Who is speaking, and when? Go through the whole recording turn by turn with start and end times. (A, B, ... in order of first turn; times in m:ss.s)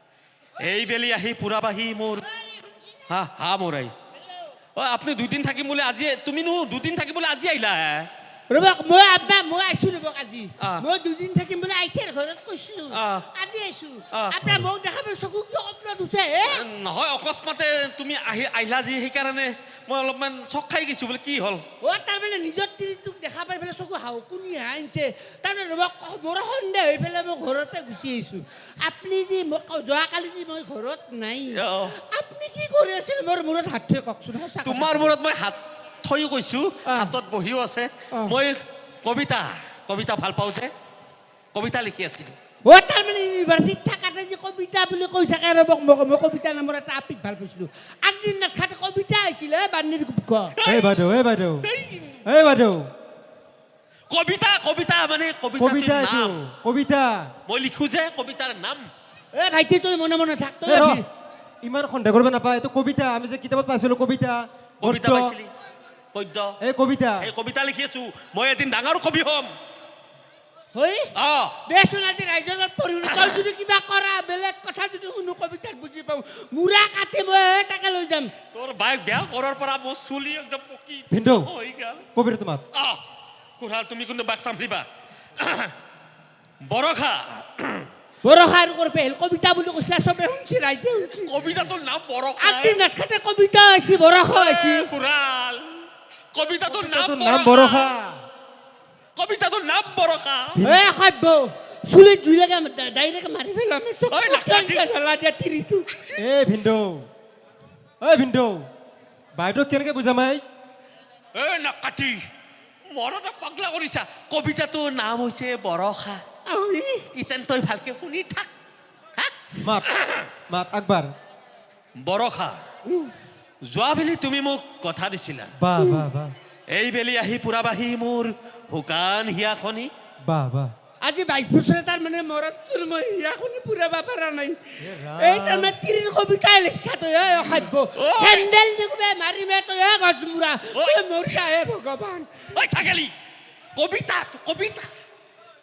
0:00.6-0:02.2 A
0:03.1-0:03.9 A
0:04.8-0:08.1 A
0:08.5-0:16.6 B
0:12.9-0:13.3 A
0:14.1-0:14.4 A
0:16.5-0:21.6 A
0:21.8-0:35.2 B
0:31.5-0:32.0 A
0:34.6-0:40.7 A
0:36.9-0:37.1 B
0:38.1-0:38.4 B
0:41.5-0:42.4 A
0:42.6-0:50.6 B
0:50.6-0:51.0 A
0:50.6-0:51.7 C
0:51.6-0:52.2 A
0:52.2-0:52.9 C
0:54.1-0:56.4 A
0:55.6-0:57.3 C
0:57.5-0:58.9 A
0:59.3-1:01.0 B
1:00.6-1:01.0 C
1:01.6-1:05.4 C
1:04.8-1:05.5 A
1:06.1-1:06.6 A
1:06.6-1:07.3 C
1:07.2-1:09.5 A
1:10.7-1:11.1 B
1:11.2-1:11.6 A
1:11.7-1:18.3 B
1:13.0-1:13.4 A
1:18.5-1:22.0 A
1:21.1-1:21.5 C
1:22.2-1:22.6 C
1:22.7-1:23.0 A
1:23.6-1:24.9 A
1:25.4-1:25.7 A
1:26.6-1:27.9 A
1:28.2-1:31.3 B
1:31.1-1:32.8 A
1:32.4-1:34.9 B
1:34.3-1:37.9 A
1:36.7-1:38.3 C
1:39.2-1:40.6 A
1:40.6-1:40.9 C
1:40.6-1:45.9 B
1:44.1-1:44.8 A
1:46.2-1:47.1 C
1:48.0-1:48.7 C
1:49.4-1:50.4 C
1:51.4-1:52.2 A
1:52.9-1:56.2 A
1:56.5-1:57.1 B
1:57.1-1:58.5 A
1:59.6-1:59.9 C
1:59.8-2:00.3 A
2:00.5-2:01.1 C
2:02.0-2:02.6 A
2:03.6-2:05.5 A
2:05.6-2:06.3 C
2:05.8-2:06.0 B
2:06.7-2:09.9 A
2:10.2-2:10.7 C
2:11.0-2:22.3 B
2:14.8-2:15.8 C
2:18.0-2:18.5 A
2:20.7-2:21.4 A
2:22.5-2:23.1 A
2:23.8-2:24.9 A